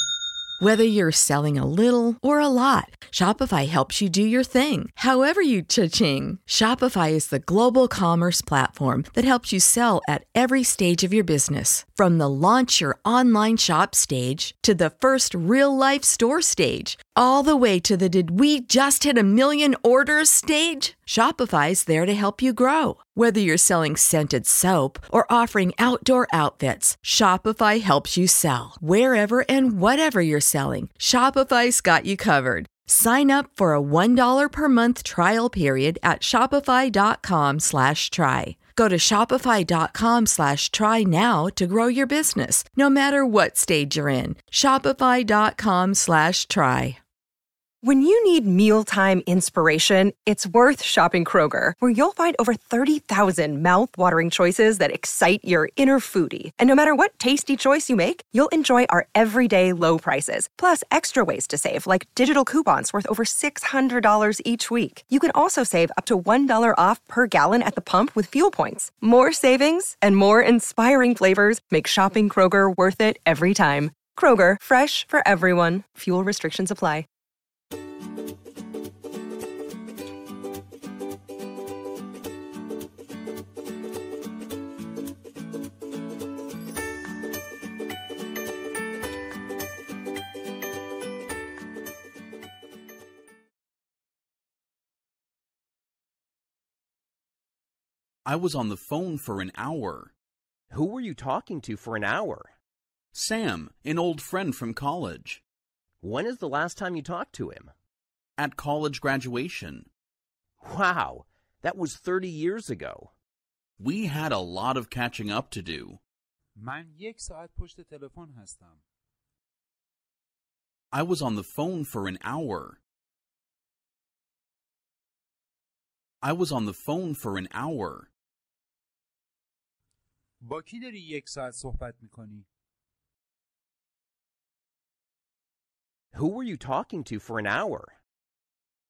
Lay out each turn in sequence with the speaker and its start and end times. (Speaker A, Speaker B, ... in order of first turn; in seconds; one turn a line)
Speaker A: 0.6-47.0
Speaker B: 47.8-77.1
Speaker C: 98.2-100.1
Speaker D: 100.7-102.5
Speaker C: 103.1-105.4
Speaker D: 106.0-107.7
Speaker C: 108.4-109.9
Speaker D: 110.6-113.1
Speaker C: 113.8-116.0
Speaker E: 116.6-118.8
Speaker C: 120.9-122.8
Speaker C: 126.2-128.1
Speaker E: 130.4-132.5
Speaker D: 136.1-137.9